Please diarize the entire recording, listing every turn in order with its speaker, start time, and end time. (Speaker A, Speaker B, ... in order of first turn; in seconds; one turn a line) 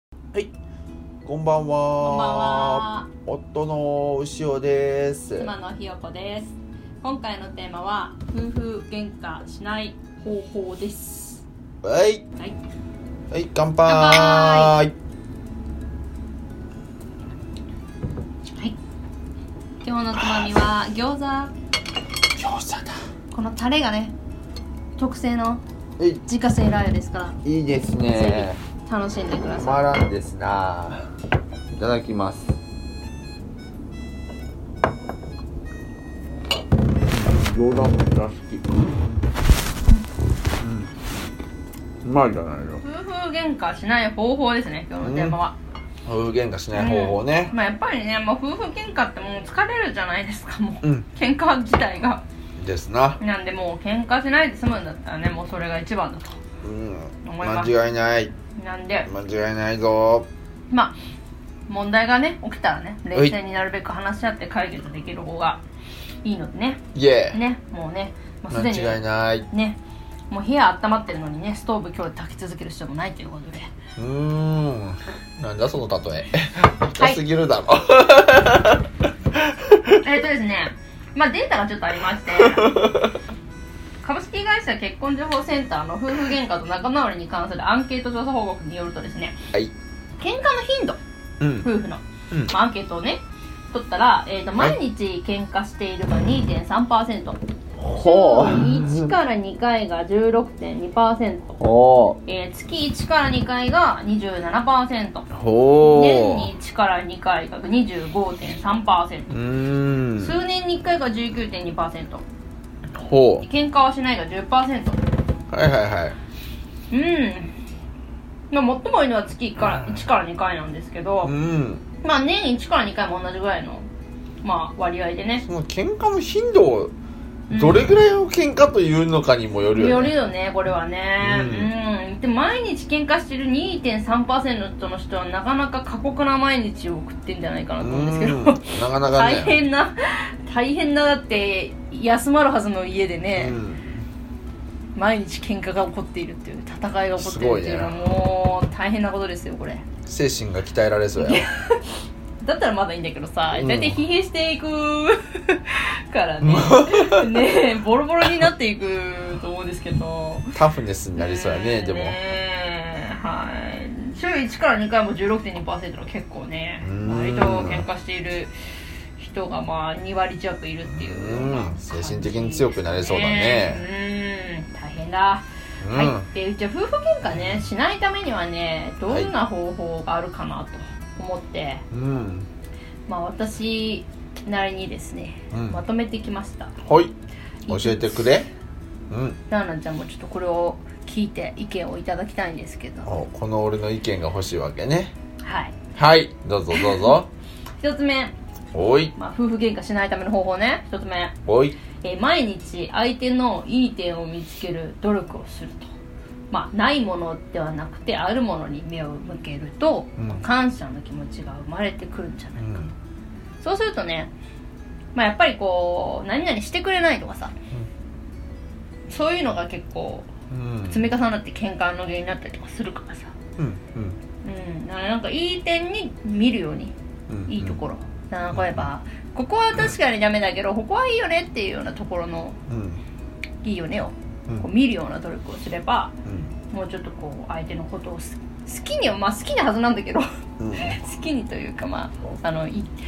Speaker A: 1.2-5.5
Speaker B: 2.0-3.1
Speaker B: 5.4-11.4
Speaker A: 11.8-12.2
Speaker A: 13.3-14.9
Speaker B: 13.8-14.7
Speaker B: 18.4-18.8
Speaker B: 19.8-21.5
Speaker A: 22.3-22.9
Speaker B: 23.3-24.1
Speaker B: 25.0-25.6
Speaker B: 26.2-27.4
Speaker A: 27.4-28.6
Speaker B: 28.1-29.8
Speaker A: 29.5-31.0
Speaker A: 31.7-32.6
Speaker A: 37.1-39.2
Speaker A: 40.6-40.9
Speaker A: 42.0-42.8
Speaker B: 42.8-45.5
Speaker A: 45.0-45.4
Speaker A: 46.0-47.5
Speaker B: 46.7-52.2
Speaker A: 52.6-53.2
Speaker B: 53.2-56.4
Speaker A: 56.6-58.3
Speaker B: 57.2-57.7
Speaker B: 58.5-59.1
Speaker A: 59.0-60.3
Speaker B: 61.7-65.6
Speaker B: 66.2-69.8
Speaker A: 66.9-67.4
Speaker A: 68.5-69.5
Speaker B: 70.3-73.7
Speaker A: 74.0-78.8
Speaker A: 79.4-79.9
Speaker B: 80.0-82.9
Speaker A: 82.4-83.1
Speaker B: 84.0-89.3
Speaker B: 90.2-91.0
Speaker A: 91.4-91.7
Speaker B: 91.6-101.6
Speaker A: 97.8-99.1
Speaker A: 101.6-102.2
Speaker B: 102.2-105.3
Speaker A: 105.3-106.5
Speaker B: 105.8-109.3
Speaker A: 109.3-110.4
Speaker B: 110.2-112.2
Speaker A: 112.9-113.4
Speaker B: 113.4-115.0
Speaker A: 115.5-116.2
Speaker B: 116.9-117.5
Speaker B: 118.5-121.3
Speaker A: 119.6-120.0
Speaker A: 121.2-121.8
Speaker B: 122.0-123.8
Speaker B: 124.4-125.4
Speaker A: 125.4-126.9
Speaker B: 127.5-127.9
Speaker A: 127.5-130.1
Speaker B: 129.8-143.6
Speaker A: 131.2-131.7
Speaker A: 137.8-139.6
Speaker A: 143.3-144.0
Speaker B: 144.9-149.8
Speaker A: 147.2-147.9
Speaker A: 150.1-151.4
Speaker B: 151.2-151.8
Speaker B: 152.4-160.5
Speaker A: 153.5-154.0
Speaker A: 156.4-157.4
Speaker A: 160.5-162.2
Speaker B: 161.2-168.5
Speaker A: 166.8-167.9
Speaker B: 169.2-181.8
Speaker A: 170.9-173.8
Speaker A: 175.8-176.3
Speaker A: 177.3-177.6
Speaker A: 181.9-182.5
Speaker B: 183.1-186.7
Speaker A: 185.5-185.8
Speaker A: 186.8-187.1
Speaker B: 187.7-188.4
Speaker A: 187.7-188.4
Speaker A: 189.1-189.4
Speaker B: 189.5-193.1
Speaker A: 193.1-195.1
Speaker B: 195.4-195.7
Speaker A: 195.9-197.3
Speaker B: 196.7-197.1
Speaker B: 197.8-198.3
Speaker A: 198.7-199.1
Speaker B: 199.2-201.3
Speaker A: 201.4-201.8
Speaker B: 202.0-205.9
Speaker B: 206.5-212.8
Speaker A: 210.2-210.4
Speaker A: 212.6-212.9
Speaker B: 213.6-214.3
Speaker B: 215.1-217.5
Speaker B: 219.1-220.3
Speaker A: 220.5-221.0
Speaker B: 220.9-223.3
Speaker A: 223.6-224.2
Speaker B: 224.4-226.9
Speaker A: 227.3-227.8
Speaker B: 227.5-232.6
Speaker A: 228.5-228.9
Speaker A: 232.7-233.0
Speaker B: 233.6-236.1
Speaker A: 236.2-236.5
Speaker B: 236.7-240.2
Speaker A: 240.6-241.0
Speaker B: 240.8-242.9